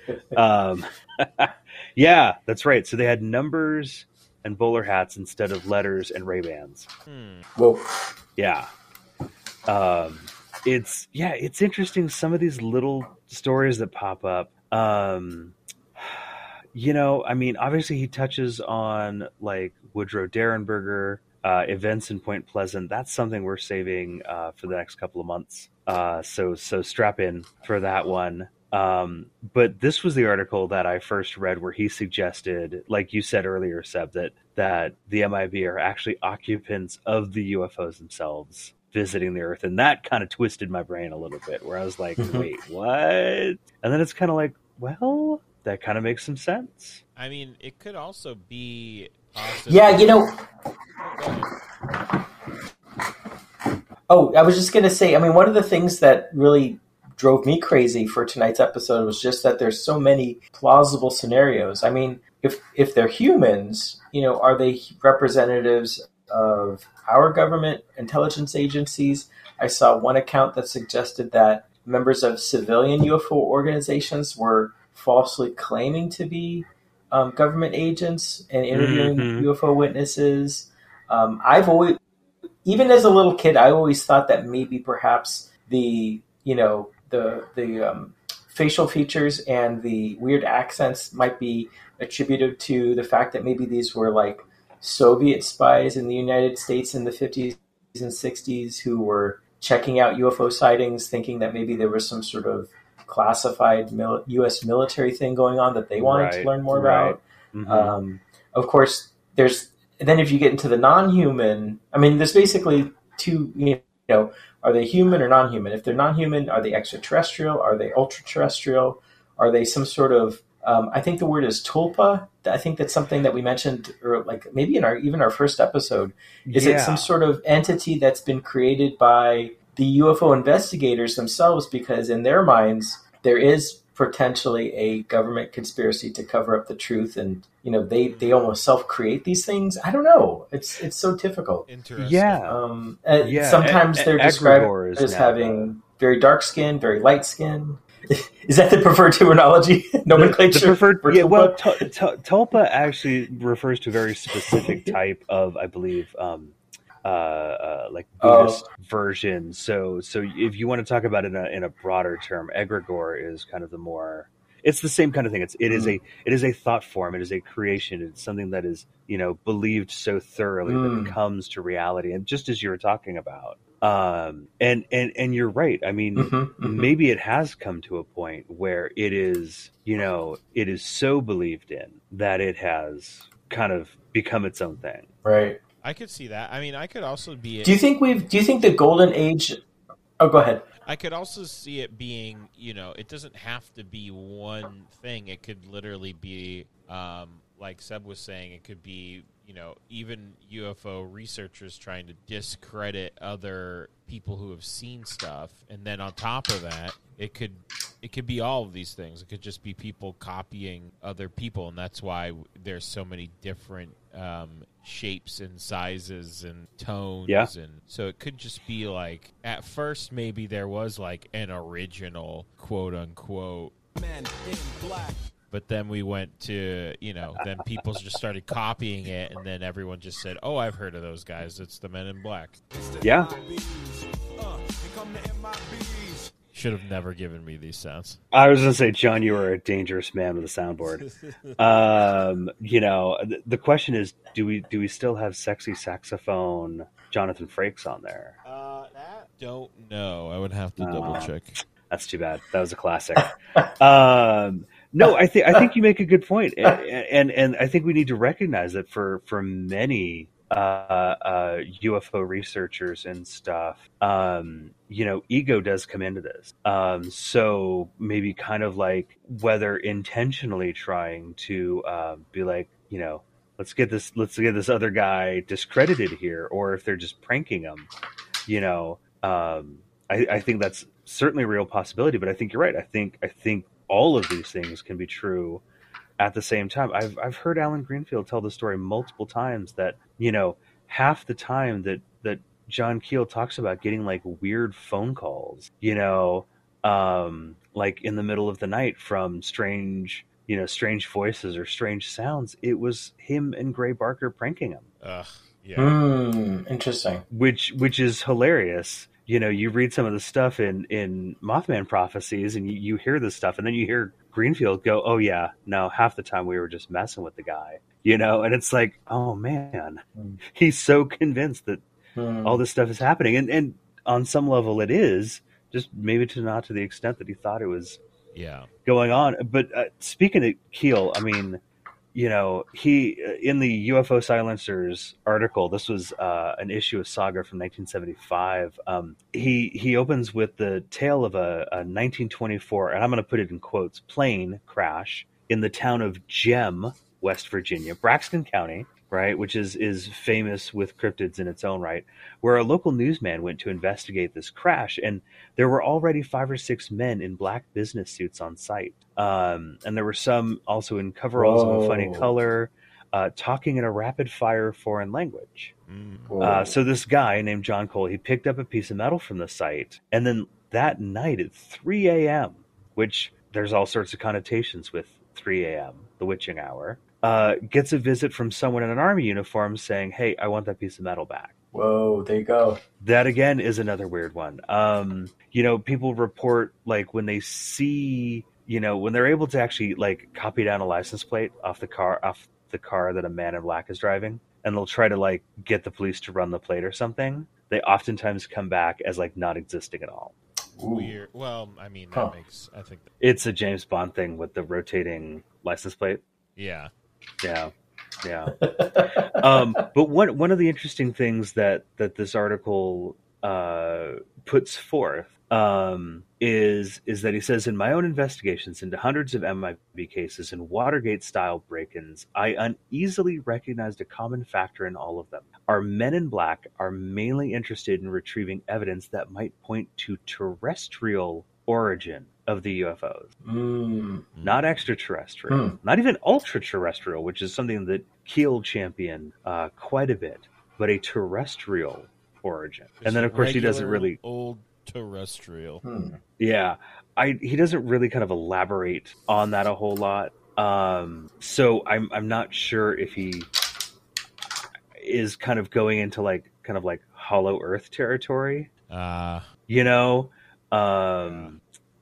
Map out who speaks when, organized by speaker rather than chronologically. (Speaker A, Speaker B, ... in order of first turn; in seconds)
Speaker A: 0.3-6.9, 8.4-8.7, 9.7-47.0, 78.7-79.5, 106.0-108.0, 126.4-127.1, 142.0-142.6, 143.2-145.7, 150.1-185.1, 233.0-233.3, 238.3-241.0, 241.6-248.3, 250.8-251.3, 251.9-277.9, 278.5-285.6, 286.2-304.9, 307.3-321.8, 322.4-328.0, 328.8-331.6, 332.1-365.7, 366.4-381.5, 383.0-400.3, 403.2-406.2, 407.4-407.7, 408.2-408.6, 409.3-433.3, 434.4-444.2, 446.4-453.5, 454.9-458.7, 459.7-461.6
Speaker B: 7.1-7.5, 47.1-50.2, 51.1-51.5, 138.0-138.4, 141.7-142.5, 185.8-187.8, 190.8-223.7, 225.5-232.6, 236.5-238.2, 240.8-241.6, 248.4-251.6, 305.0-305.9, 328.3-328.7, 365.9-366.3, 400.9-403.1, 406.6-406.9, 434.3-434.6, 443.0-445.8, 458.9-459.5, 461.2-461.5
Speaker C: 7.5-7.8, 42.2-42.5, 49.7-50.3, 54.1-82.0, 82.6-141.6, 142.5-151.8, 154.4-154.9, 158.2-158.6, 165.7-166.0, 170.7-171.1, 176.2-176.9, 185.2-185.6, 187.6-189.6, 190.2-190.6, 305.8-307.2, 320.1-320.4, 322.1-322.6, 361.4-362.3, 366.3-366.7, 381.7-382.8, 400.8-401.1, 408.6-409.8, 433.4-434.2, 435.5-435.8, 445.8-446.2
Speaker D: 223.9-225.2, 232.7-236.3